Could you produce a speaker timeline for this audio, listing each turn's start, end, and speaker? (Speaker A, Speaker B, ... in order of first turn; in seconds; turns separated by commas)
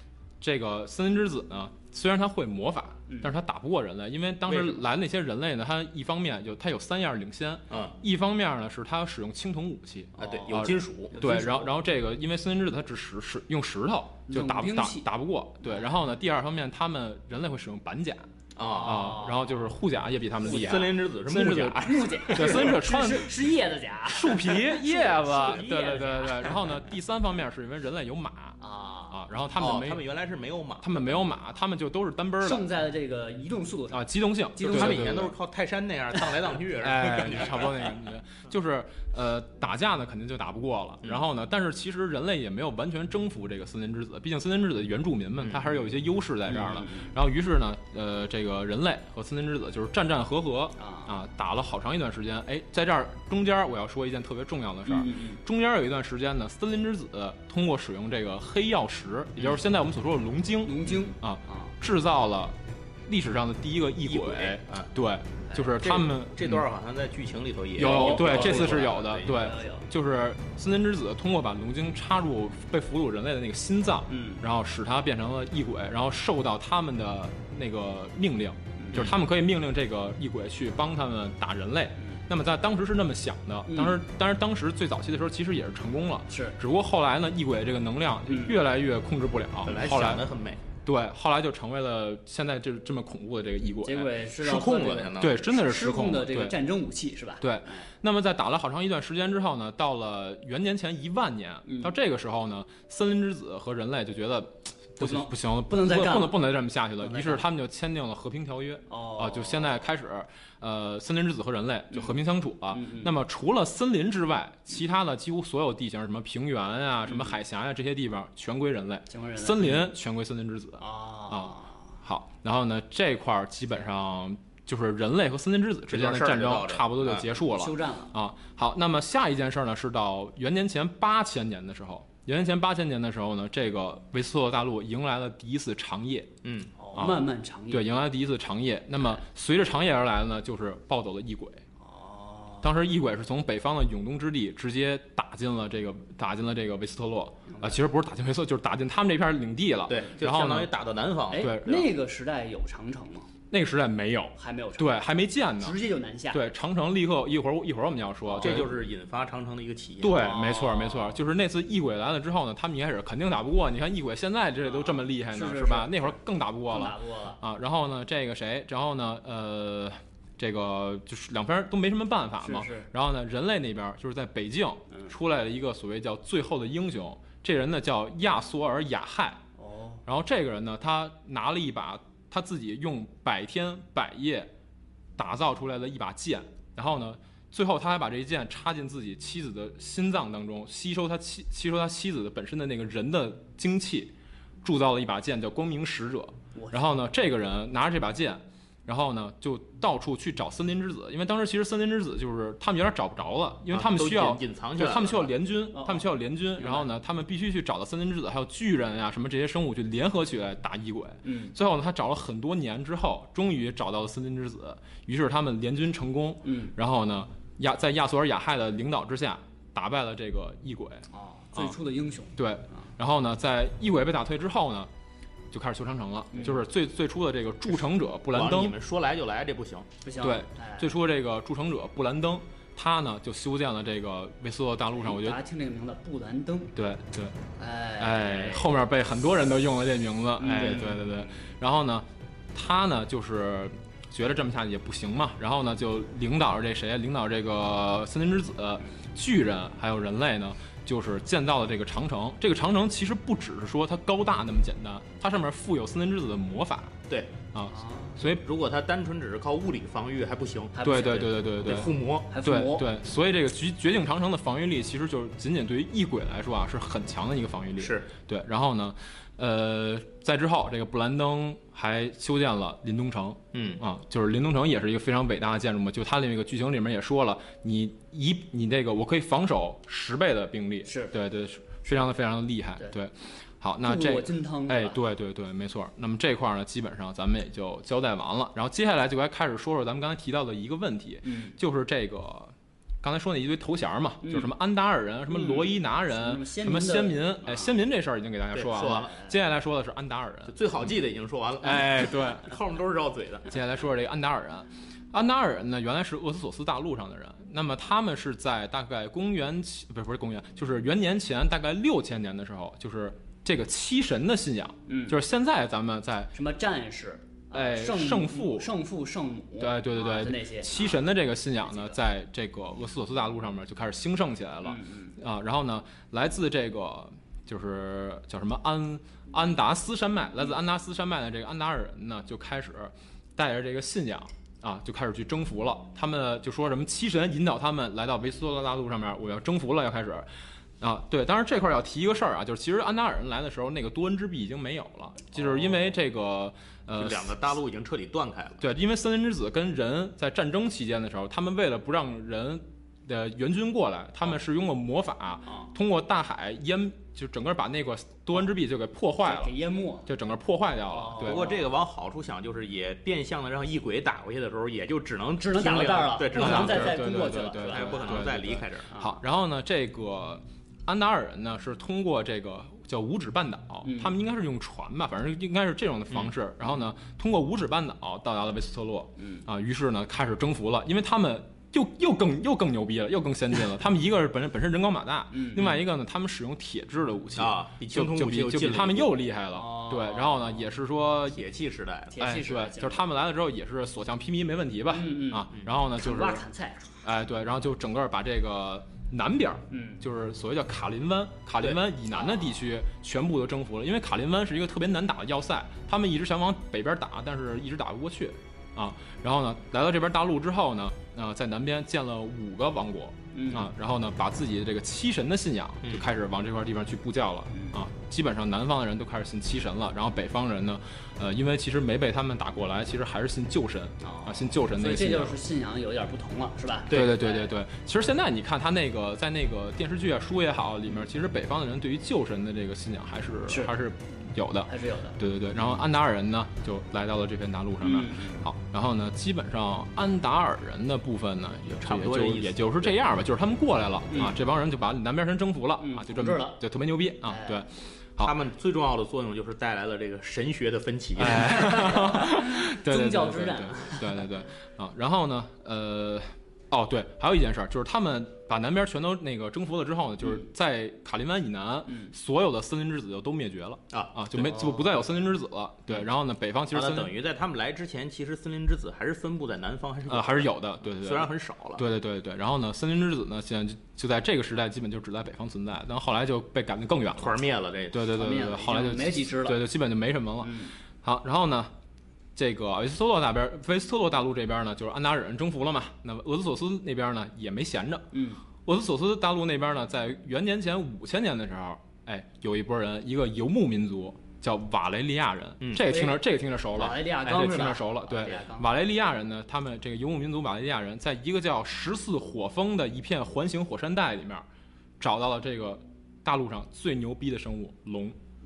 Speaker A: 0.4-18.3, Speaker B: 4.5-4.8, Speaker B: 10.2-11.2, Speaker C: 10.2-10.5, Speaker C: 11.1-11.7, Speaker C: 14.3-15.1, Speaker C: 15.6-15.9, Speaker B: 18.6-19.1, Speaker C: 18.6-19.6, Speaker A: 18.8-23.4, Speaker B: 20.4-22.8, Speaker C: 21.8-26.6, Speaker A: 24.1-30.0, Speaker B: 24.9-26.4, Speaker C: 28.6-29.2, Speaker B: 29.5-31.1, Speaker A: 30.8-32.6, Speaker C: 32.4-35.3, Speaker A: 33.9-35.4, Speaker B: 34.6-38.0, Speaker A: 36.8-66.6, Speaker B: 45.4-45.7, Speaker C: 46.5-47.1, Speaker C: 50.8-51.1, Speaker C: 54.9-55.4, Speaker C: 60.6-61.7, Speaker B: 64.0-64.9, Speaker B: 65.5-69.5, Speaker A: 67.8-90.2, Speaker C: 67.8-69.9, Speaker C: 74.1-74.4, Speaker C: 78.8-79.1, Speaker C: 83.7-84.0, Speaker C: 86.3-86.6, Speaker C: 88.3-88.6, Speaker B: 89.6-90.6, Speaker A: 90.8-94.1, Speaker C: 93.8-97.9, Speaker B: 94.4-95.4, Speaker A: 95.2-96.5, Speaker A: 97.4-136.3, Speaker C: 101.7-101.9, Speaker C: 105.0-107.5, Speaker C: 108.9-109.8, Speaker C: 112.7-113.1, Speaker C: 117.1-117.4, Speaker C: 119.1-119.8, Speaker C: 120.8-121.9, Speaker B: 125.9-127.3, Speaker C: 127.5-128.1, Speaker B: 136.4-136.7, Speaker C: 136.8-137.9, Speaker A: 136.9-141.6, Speaker C: 141.8-142.7, Speaker A: 142.6-150.7, Speaker C: 147.5-147.8, Speaker B: 149.9-151.9, Speaker C: 151.3-153.3, Speaker A: 151.3-151.8, Speaker A: 153.5-155.8, Speaker C: 154.3-155.1, Speaker C: 155.6-156.4, Speaker A: 156.3-158.7, Speaker C: 158.2-158.7, Speaker B: 158.4-160.3, Speaker A: 160.0-179.4, Speaker C: 160.1-161.2, Speaker C: 164.6-167.4, Speaker C: 172.4-172.9, Speaker C: 179.6-180.0, Speaker A: 180.1-184.5, Speaker A: 185.2-221.8, Speaker C: 196.5-196.9, Speaker B: 203.7-205.3, Speaker C: 205.7-206.1, Speaker C: 206.6-206.9, Speaker C: 211.2-211.5, Speaker C: 216.4-216.7, Speaker C: 221.1-222.9, Speaker A: 222.3-224.9, Speaker A: 225.5-228.8, Speaker C: 226.3-226.6, Speaker B: 228.3-229.9, Speaker C: 230.0-231.0, Speaker A: 230.2-235.4, Speaker C: 234.9-236.7, Speaker A: 236.7-237.3, Speaker C: 237.6-238.7, Speaker A: 238.0-257.0, Speaker C: 240.4-241.4, Speaker B: 240.5-240.9, Speaker B: 257.1-257.3, Speaker A: 257.5-258.4, Speaker C: 257.7-258.2, Speaker B: 258.4-260.8, Speaker C: 260.7-262.9, Speaker A: 260.8-300.6, Speaker B: 261.6-262.3, Speaker B: 267.8-268.1, Speaker B: 273.5-273.8, Speaker C: 280.9-281.1, Speaker C: 283.8-285.0, Speaker C: 291.2-291.6, Speaker C: 294.2-294.5, Speaker C: 295.3-297.7, Speaker B: 298.5-299.1, Speaker C: 299.1-299.3, Speaker B: 300.5-303.5, Speaker A: 301.6-302.5, Speaker A: 303.5-316.3, Speaker C: 314.9-315.2, Speaker C: 316.3-321.0, Speaker A: 317.5-318.7, Speaker A: 319.6-340.3, Speaker C: 321.6-322.0, Speaker C: 324.6-325.1, Speaker A: 340.8-347.3, Speaker C: 345.4-345.7, Speaker B: 347.0-348.6, Speaker A: 348.6-359.5, Speaker C: 359.2-360.1, Speaker A: 360.1-361.4, Speaker C: 360.9-361.6, Speaker B: 361.2-367.0, Speaker C: 365.4-368.3, Speaker A: 366.3-391.4, Speaker B: 367.6-368.9, Speaker C: 368.9-369.2, Speaker C: 373.8-374.1, Speaker C: 379.2-379.4, Speaker C: 385.3-385.8, Speaker B: 387.4-389.1, Speaker C: 389.5-390.7, Speaker B: 391.3-392.1, Speaker C: 392.1-393.1, Speaker A: 392.2-396.4, Speaker C: 394.9-396.9, Speaker A: 397.0-425.4, Speaker C: 399.7-400.0, Speaker C: 402.1-402.6, Speaker C: 413.3-413.7, Speaker C: 417.5-417.8, Speaker C: 424.0-427.5, Speaker A: 426.9-448.3, Speaker C: 433.5-433.7, Speaker C: 434.7-435.2, Speaker C: 437.8-438.4, Speaker B: 441.8-442.9, Speaker C: 444.1-444.4, Speaker C: 445.8-446.6, Speaker C: 447.2-447.7, Speaker B: 448.2-451.9, Speaker A: 451.2-467.1, Speaker C: 451.5-454.3, Speaker C: 461.9-462.1, Speaker C: 464.4-465.0, Speaker B: 466.7-471.8, Speaker A: 470.1-477.4, Speaker B: 477.2-478.1, Speaker A: 477.9-481.7, Speaker C: 478.1-479.6, Speaker C: 480.4-480.8, Speaker A: 482.3-488.1, Speaker C: 488.1-488.4, Speaker A: 488.6-504.4, Speaker B: 495.6-495.9, Speaker C: 495.8-496.2, Speaker C: 496.7-498.7, Speaker A: 505.0-508.2